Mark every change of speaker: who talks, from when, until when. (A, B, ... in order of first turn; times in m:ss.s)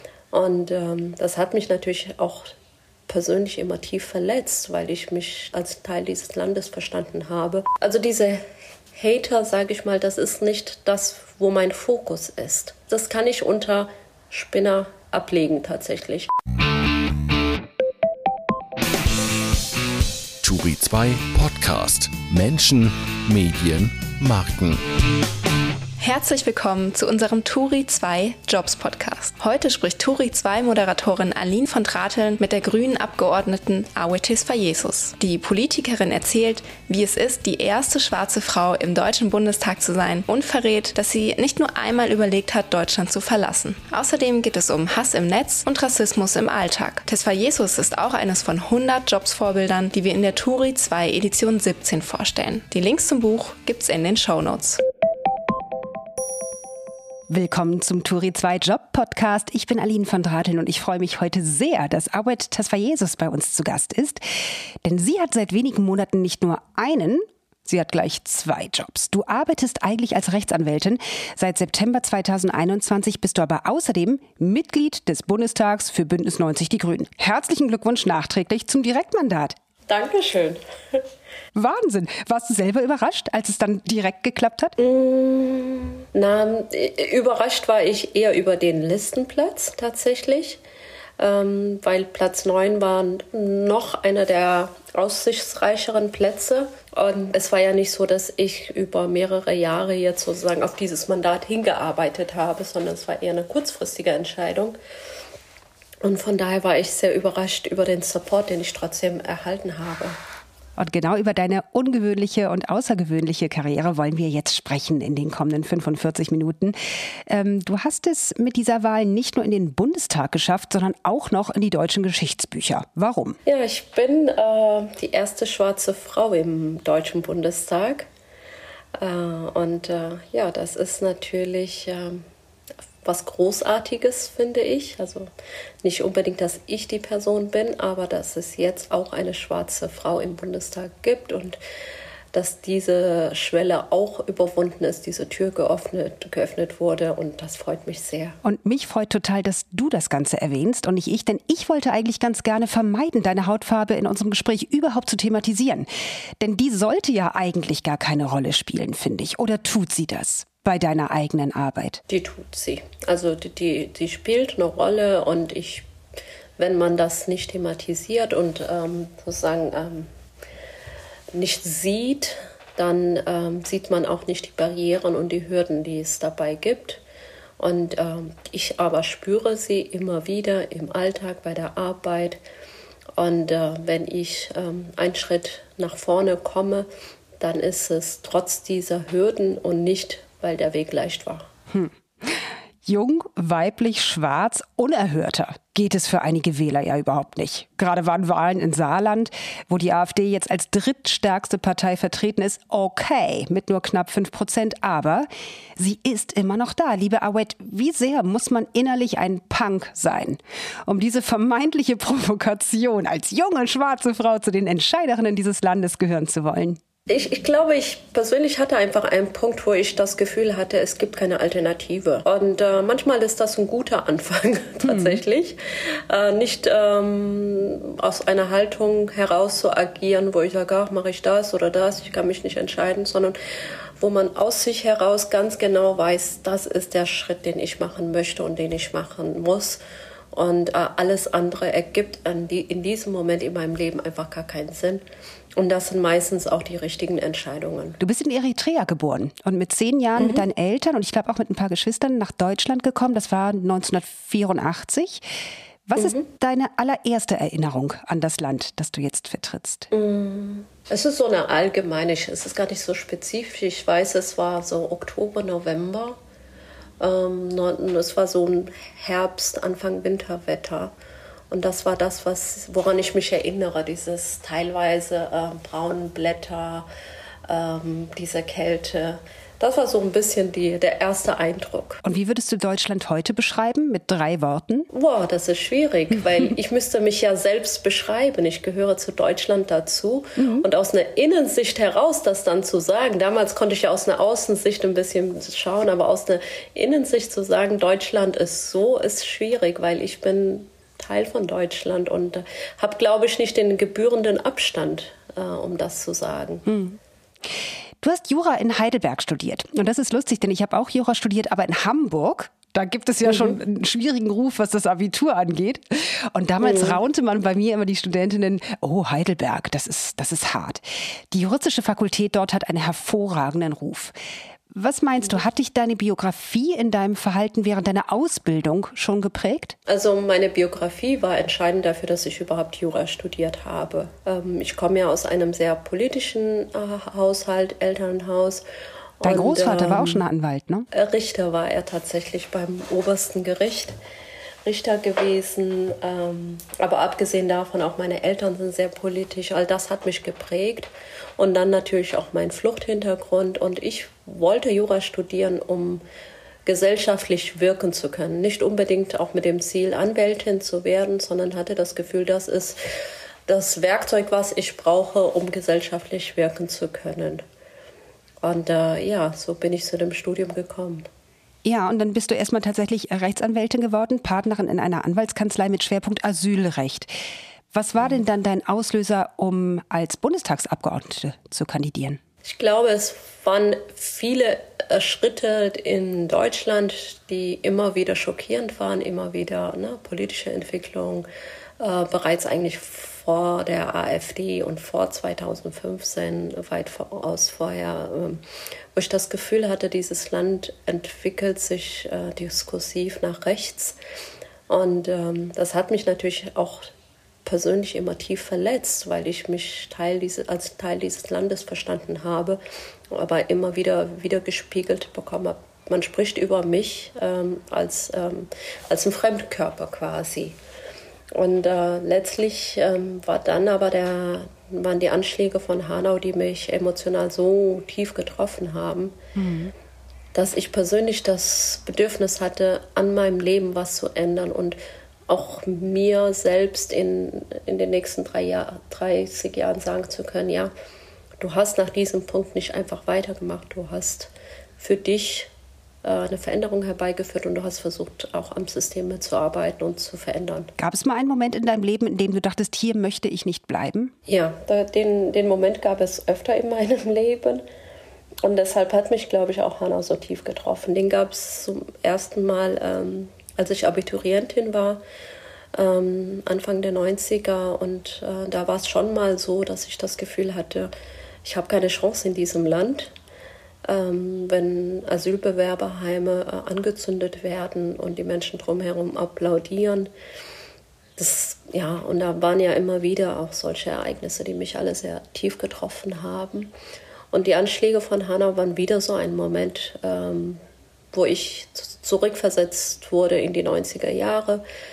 0:00.3-0:02.5 A
0:03.1-0:16.3 A
0:20.4-0:24.8 B
0:26.0-0:54.8 C
0:57.3-1:19.6 D
1:19.9-1:21.0 A
1:21.5-1:24.7 D
1:24.8-1:30.6 A
1:31.2-1:44.8 A
1:46.0-1:50.2 A
1:50.8-1:56.8 D
1:57.3-2:03.4 D
2:03.4-2:08.1 A
2:09.0-2:12.2 A
2:13.0-2:15.3 A
2:15.8-2:21.6 A
2:22.3-2:28.4 A
2:28.4-2:35.9 D
2:36.4-2:42.0 D
2:42.1-2:45.9 A
2:46.6-2:50.1 A
2:51.3-2:57.0 A
2:57.6-3:02.4 A
3:03.2-3:06.9 A
3:07.4-3:11.5 A
3:11.7-3:36.8 D
3:37.1-3:53.4 A
3:44.8-3:45.2 D
3:54.0-3:59.8 A
4:00.3-4:05.0 A
4:05.6-4:08.0 A
4:08.0-4:15.2 D
4:10.2-4:10.4 A
4:15.9-4:19.9 D
4:16.0-4:16.2 A
4:19.9-4:26.2 A
4:27.0-4:30.9 A
4:31.5-4:36.9 A
4:37.5-4:42.0 A
4:42.0-4:44.9 D
4:44.9-5:06.6 A
4:50.4-4:50.6 D
5:06.6-5:24.1 D
5:13.2-5:13.6 A
5:16.6-5:17.0 A
5:24.7-5:29.8 D
5:29.9-5:38.6 A
5:39.2-5:40.2 A
5:39.2-5:40.9 D
5:40.9-5:43.9 A
5:44.6-5:56.0 A
5:56.6-6:02.8 A
6:03.5-6:07.4 A
6:08.4-6:11.1 A
6:11.6-6:17.1 D
6:17.7-6:22.2 D
6:22.4-6:31.2 A
6:31.8-6:38.4 A
6:38.9-6:44.0 A
6:44.7-6:46.9 A
6:47.4-6:52.6 A
6:53.1-7:00.6 A
7:01.3-7:09.2 A
7:09.4-7:09.7 D
7:10.3-7:14.8 A
7:15.3-7:20.7 A
7:21.4-7:25.5 A
7:26.0-7:30.7 A
7:30.8-7:34.1 D
7:34.3-7:37.6 A
7:38.4-7:45.0 A
7:45.7-7:50.9 A
7:51.4-7:53.1 A
7:53.8-8:00.1 A
8:01.2-8:06.7 A
8:07.3-8:10.6 A
8:11.1-8:14.6 A